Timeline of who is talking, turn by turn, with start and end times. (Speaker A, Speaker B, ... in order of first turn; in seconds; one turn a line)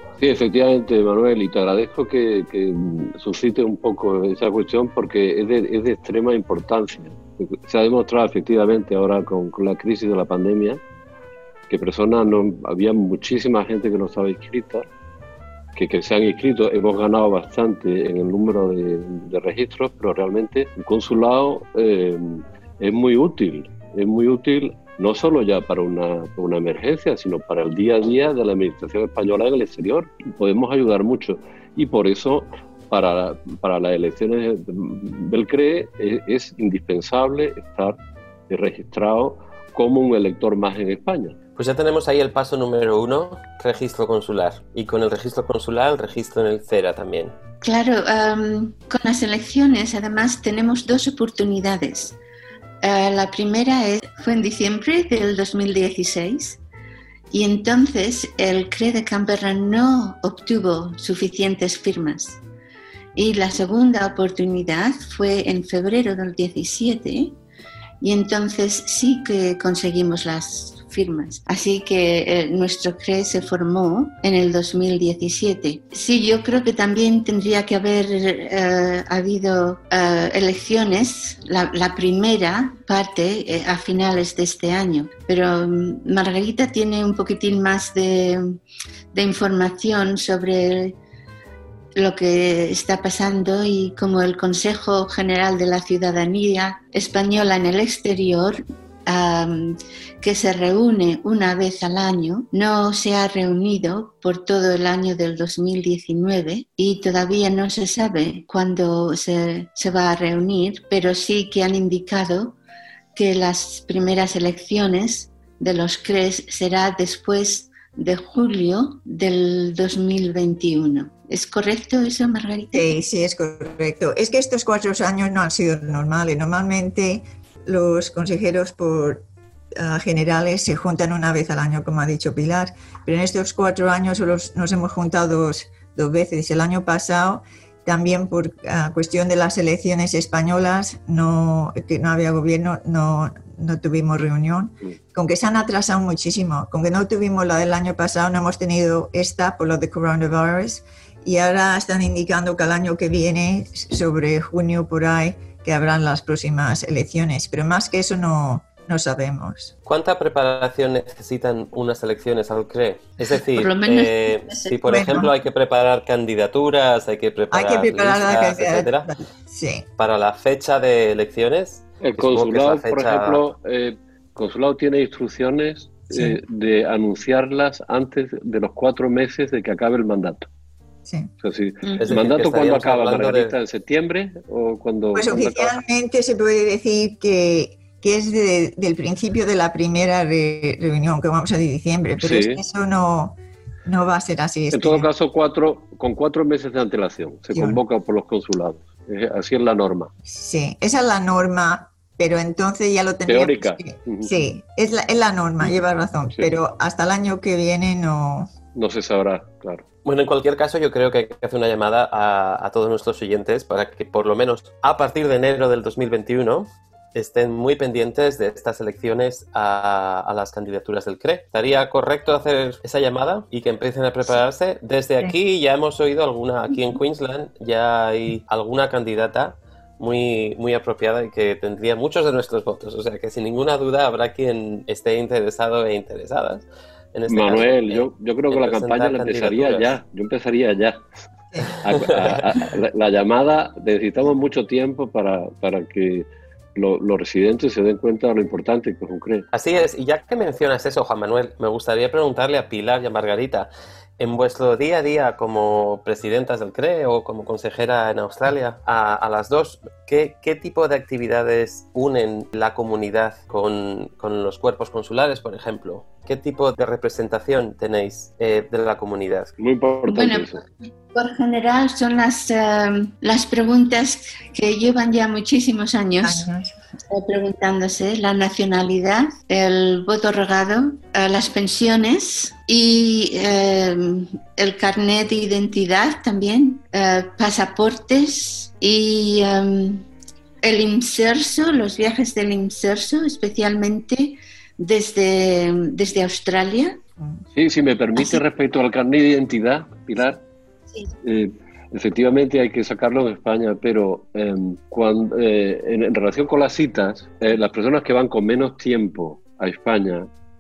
Speaker A: 0.2-10.8
Speaker A: 11.7-14.8
Speaker A: 15.8-38.0
Speaker A: 38.5-41.4
Speaker B: 41.6-47.3
Speaker C: 47.6-52.2
Speaker C: 52.8-56.6
Speaker C: 57.3-62.4
Speaker C: 63.2-67.4
Speaker C: 68.0-88.6
Speaker C: 89.1-91.0
Speaker C: 92.0-112.6
Speaker C: 113.2-122.9
Speaker D: 122.7-129.2
Speaker D: 129.8-159.7
Speaker B: 159.9-169.1
Speaker C: 163.5-165.3
Speaker D: 164.9-165.3
Speaker D: 167.5-169.9
Speaker B: 170.0-173.4
Speaker A: 172.0-180.5
Speaker D: 176.1-176.4
Speaker D: 181.1-181.3
Speaker A: 181.4-185.8
Speaker B: 182.0-183.6
Speaker D: 185.1-195.1
Speaker A: 192.2-192.6
Speaker A: 194.7-200.1
Speaker D: 200.3-208.5
Speaker A: 203.3-204.3
Speaker A: 208.8-209.8
Speaker B: 210.1-240.0
Speaker A: 237.3-241.0
Speaker A: 241.8-249.5
Speaker B: 242.0-242.5
Speaker B: 249.5-269.5
Speaker A: 269.6-270.6
Speaker C: 270.1-270.5
Speaker C: 271.1-276.5
Speaker D: 276.2-276.7
Speaker C: 277.1-290.1
Speaker C: 290.6-297.0
Speaker A: 297.6-300.4
Speaker A: 301.2-310.3